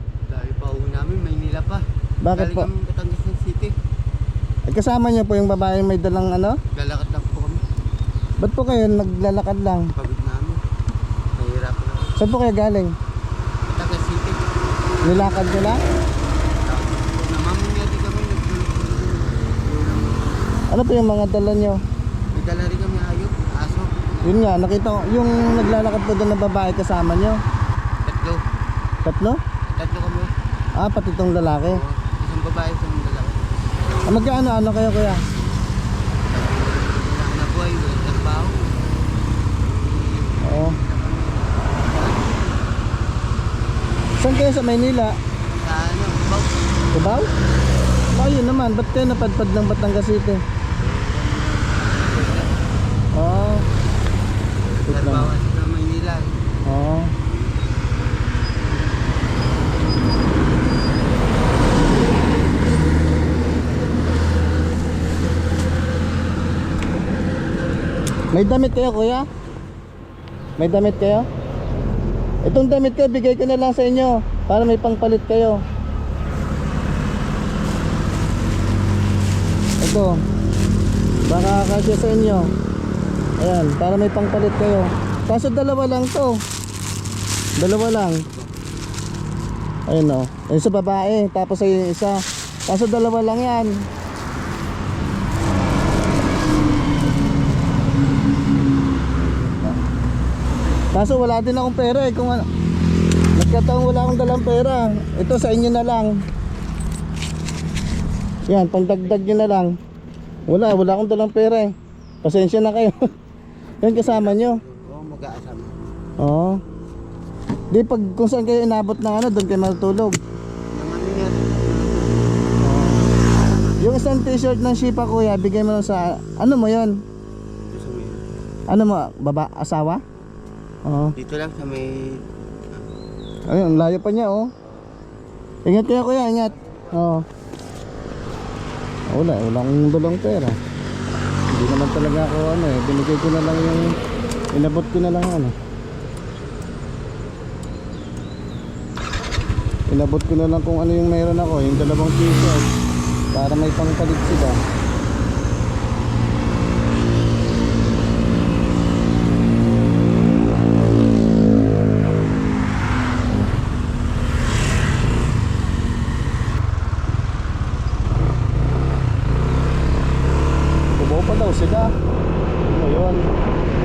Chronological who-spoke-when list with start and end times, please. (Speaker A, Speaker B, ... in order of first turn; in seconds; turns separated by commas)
Speaker A: 0.3-3.8, Speaker B: 2.2-2.7, Speaker B: 4.7-6.6, Speaker A: 6.7-7.6, Speaker B: 8.4-9.9, Speaker A: 9.9-10.6, Speaker A: 11.4-12.2, Speaker B: 12.2-13.0, Speaker A: 13.7-14.4, Speaker B: 15.0-15.8, Speaker A: 16.5-20.4, Speaker B: 20.7-21.8, Speaker A: 22.3-24.3, Speaker B: 24.2-27.4, Speaker A: 28.0-28.4, Speaker B: 29.0-29.4, Speaker A: 29.7-30.3, Speaker B: 30.8-31.8, Speaker A: 31.4-34.1, Speaker B: 34.0-35.2, Speaker A: 36.3-38.9, Speaker A: 39.6-42.7, Speaker B: 40.4-40.8, Speaker B: 44.2-45.2, Speaker A: 45.5-46.6, Speaker B: 46.9-47.3, Speaker B: 48.1-50.4, Speaker A: 50.8-52.5, Speaker B: 53.1-53.7, Speaker A: 54.8-56.4, Speaker B: 54.9-55.3, Speaker B: 56.7-57.1, Speaker B: 68.3-69.3, Speaker B: 70.6-71.3, Speaker B: 72.4-75.6, Speaker B: 79.8-80.2, Speaker B: 81.3-82.5, Speaker B: 83.4-86.4, Speaker B: 87.6-88.3, Speaker A: 88.2-88.5, Speaker B: 89.9-93.9, Speaker B: 100.9-102.5, Speaker B: 103.4-106.2, Speaker B: 108.5-109.8, Speaker B: 110.5-113.1, Speaker B: 113.8-114.6, Speaker A: 113.9-116.0, Speaker B: 116.2-116.6, Speaker B: 117.7-120.2, Speaker A: 120.7-122.5, Speaker B: 122.6-123.1, Speaker A: 123.4-123.8, Speaker B: 123.8-127.0, Speaker A: 127.6-128.2, Speaker B: 128.7-130.0, Speaker B: 130.8-131.2, Speaker A: 131.2-132.3, Speaker B: 133.5-134.5, Speaker B: 135.7-137.2, Speaker A: 136.6-137.0, Speaker B: 139.1-140.6, Speaker B: 141.5-144.0, Speaker B: 144.5-145.5, Speaker B: 149.9-152.7, Speaker B: 153.3-154.6, Speaker B: 171.0-172.0, Speaker B: 172.6-173.3